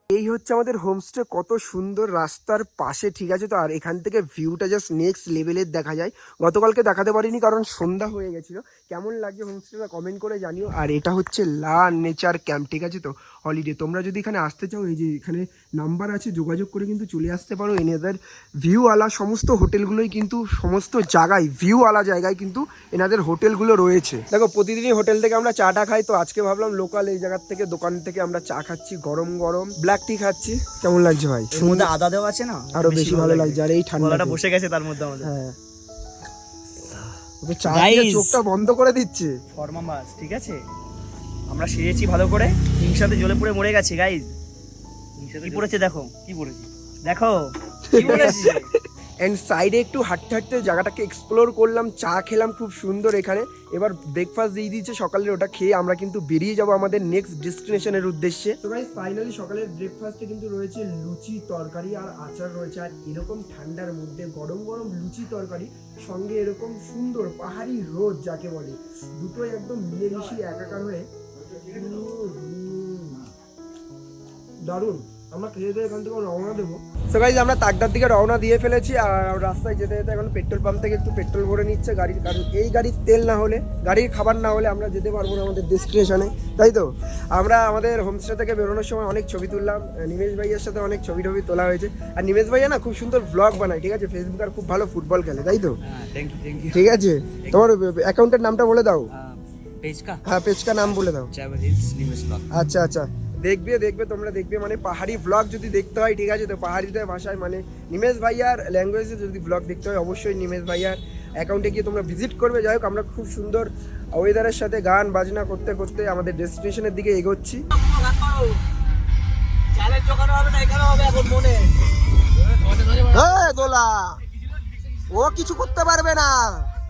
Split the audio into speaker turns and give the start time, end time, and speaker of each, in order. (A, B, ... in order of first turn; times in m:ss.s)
0:00.1-0:31.9 A
0:31.6-0:35.3 B
0:32.8-0:34.4 A
0:35.2-0:35.6 A
0:37.4-0:39.3 A
0:37.7-0:38.4 B
0:39.6-0:40.6 B
0:41.5-0:44.3 B
0:45.2-0:47.4 B
0:47.9-0:48.6 A
0:47.9-0:48.7 B
0:49.2-1:11.1 A
1:11.7-1:13.1 A
1:14.6-1:35.7 A
1:35.8-1:36.9 C
1:36.7-1:39.1 A
1:39.2-1:40.2 C
1:40.3-1:41.3 A
1:41.3-1:42.5 C
1:42.5-1:57.6 A
1:57.8-1:58.5 B
1:59.8-2:01.7 B
2:03.0-2:04.2 A
2:05.1-2:06.7 A